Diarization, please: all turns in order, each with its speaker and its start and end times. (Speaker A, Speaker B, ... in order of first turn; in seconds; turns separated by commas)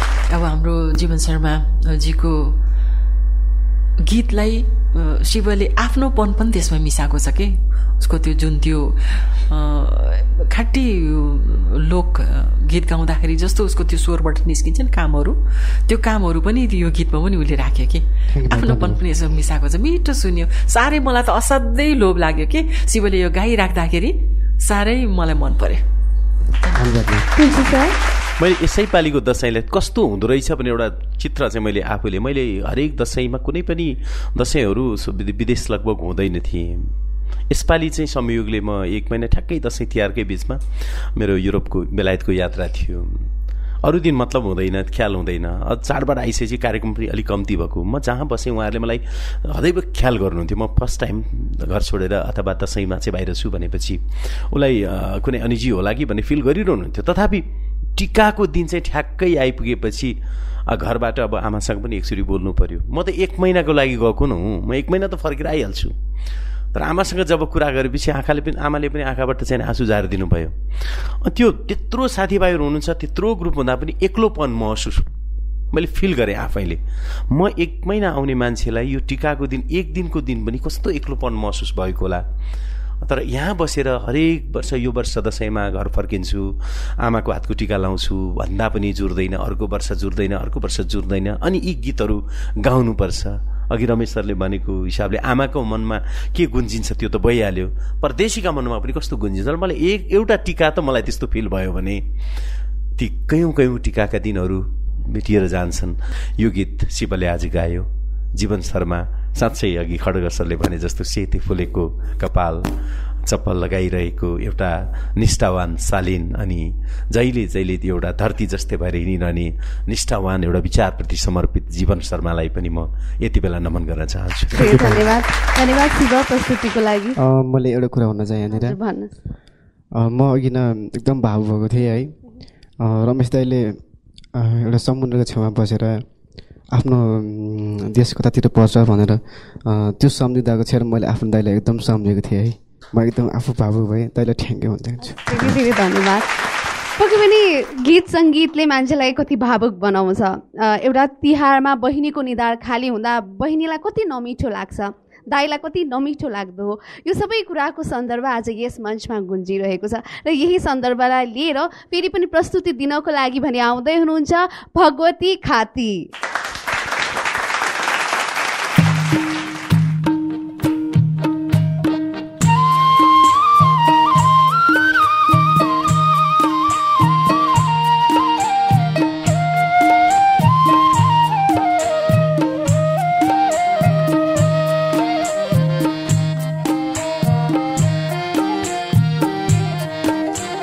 Speaker A: 0.3-2.5, Speaker A: 4.0-9.0, Speaker A: 9.5-25.8, Speaker B: 18.4-19.0, Speaker B: 26.8-27.2, Speaker C: 27.4-27.9, Speaker D: 28.4-36.9, Speaker D: 37.5-40.6, Speaker D: 41.1-43.2, Speaker D: 43.8-57.4, Speaker D: 58.0-60.2, Speaker D: 60.7-65.9, Speaker D: 66.7-70.5, Speaker D: 71.2-75.0, Speaker D: 75.7-82.2, Speaker D: 83.0-102.0, Speaker D: 103.0-112.7, Speaker D: 113.2-124.7, Speaker C: 124.5-127.2, Speaker B: 124.6-125.0, Speaker B: 127.2-128.8, Speaker C: 128.5-129.1, Speaker B: 130.0-132.2, Speaker B: 132.8-133.8, Speaker B: 134.3-136.0, Speaker B: 136.7-145.6, Speaker C: 145.1-146.3, Speaker C: 147.0-166.1